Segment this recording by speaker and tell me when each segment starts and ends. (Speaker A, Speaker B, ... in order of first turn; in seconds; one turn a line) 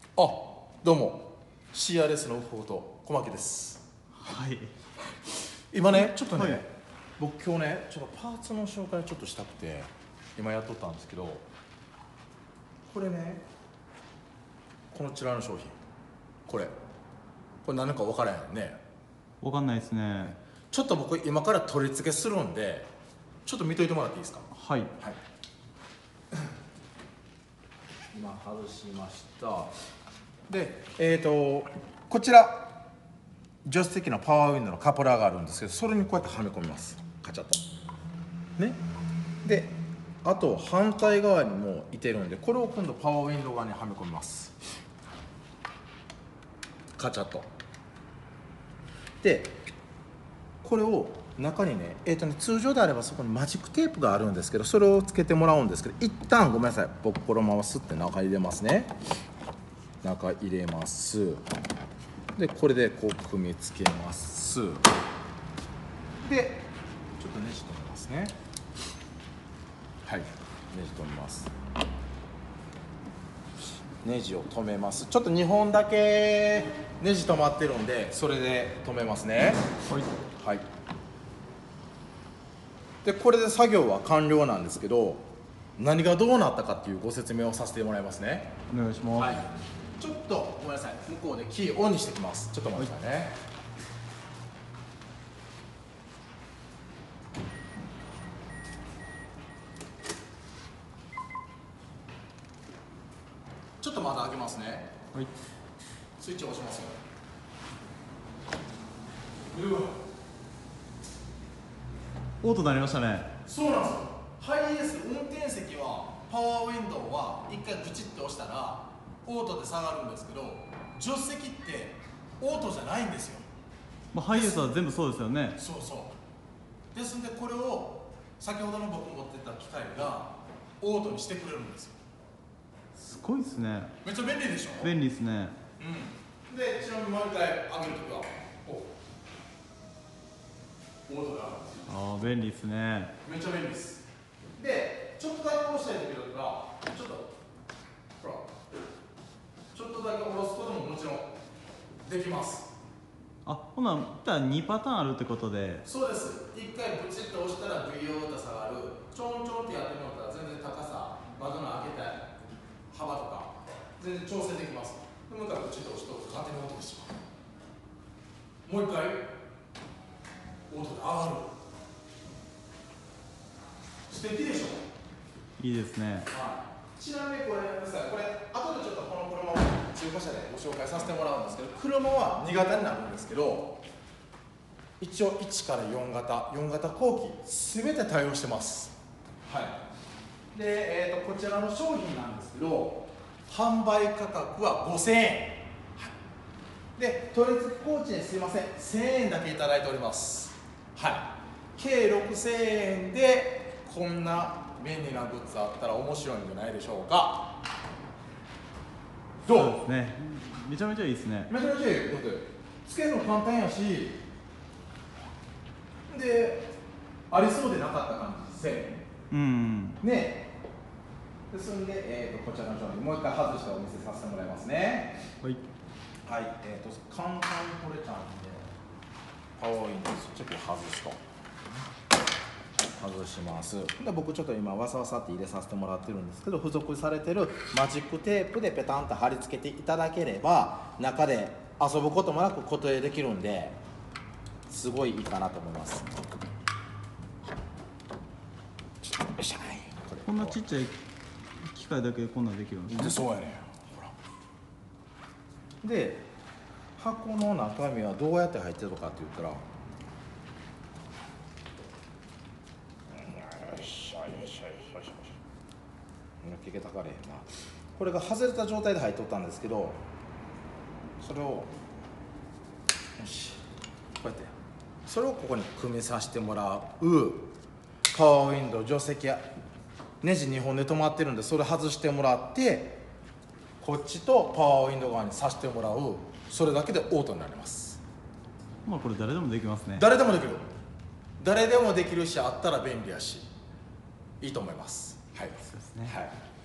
Speaker A: 0.2-3.8
Speaker B: 4.2-4.7
Speaker A: 5.7-11.4
Speaker B: 5.9-6.6
Speaker A: 12.9-13.4
Speaker A: 14.9-15.7
Speaker A: 16.5-16.7
Speaker A: 17.6-18.8
Speaker B: 19.4-20.4
Speaker A: 20.7-22.9
Speaker A: 23.4-25.2
Speaker B: 24.5-24.9
Speaker A: 28.1-29.7
Speaker A: 30.5-32.7
Speaker A: 33.6-37.6
Speaker A: 39.4-44.5
Speaker A: 47.0-47.5
Speaker A: 49.2-49.5
Speaker A: 50.6-58.9
Speaker A: 60.0-61.4
Speaker A: 62.4-64.8
Speaker A: 66.2-68.3
Speaker A: 70.0-71.5
Speaker A: 74.0-79.6
Speaker B: 79.9-80.1
Speaker A: 80.4-80.6
Speaker A: 83.0-85.2
Speaker A: 85.8-88.5
Speaker B: 88.7-89.3
Speaker A: 89.2-93.3
Speaker A: 103.8-104.9
Speaker A: 106.2-107.0
Speaker A: 109.5-109.9
Speaker B: 112.4-113.3
Speaker A: 113.4-123.4
Speaker B: 124.1-125.6
Speaker A: 124.3-124.8
Speaker A: 125.6-126.1
Speaker A: 126.9-131.9
Speaker B: 132.9-133.9
Speaker A: 134.0-134.9
Speaker B: 134.7-135.6
Speaker A: 135.8-138.9
Speaker A: 141.1-141.9
Speaker B: 141.9-143.1
Speaker A: 143.2-144.0
Speaker A: 144.6-147.3
Speaker A: 148.2-148.4
Speaker A: 149.7-151.3
Speaker A: 152.0-152.7
Speaker B: 153.4-155.8
Speaker A: 155.8-162.3
Speaker A: 162.9-167.1
Speaker A: 168.6-169.2
Speaker A: 170.7-171.5
Speaker A: 174.1-174.8
Speaker B: 175.6-176.3
Speaker A: 176.3-183.8
Speaker A: 185.0-188.9
Speaker A: 189.5-189.8
Speaker A: 190.5-196.1
Speaker A: 197.0-207.5
Speaker A: 209.4-209.8
Speaker B: 209.4-211.5
Speaker A: 211.5-214.2
Speaker A: 216.1-216.7
Speaker A: 217.3-219.1
Speaker B: 219.3-220.0
Speaker A: 220.0-220.5
Speaker A: 221.5-225.2
Speaker A: 226.2-228.7
Speaker A: 229.6-231.2
Speaker A: 233.0-243.8
Speaker A: 244.7-246.1
Speaker A: 249.2-250.6
Speaker B: 250.2-250.9
Speaker B: 251.6-253.2
Speaker A: 252.9-254.1
Speaker A: 255.8-256.2
Speaker A: 257.0-259.6
Speaker A: 263.1-265.2
Speaker A: 266.4-270.0
Speaker A: 271.2-271.7
Speaker A: 273.2-273.6
Speaker A: 274.2-274.5
Speaker A: 275.1-277.5
Speaker A: 278.1-279.4
Speaker A: 280.2-283.0
Speaker A: 283.8-288.0
Speaker B: 288.8-290.0
Speaker A: 289.9-290.6
Speaker A: 291.4-293.5
Speaker A: 294.4-296.3
Speaker B: 295.6-296.1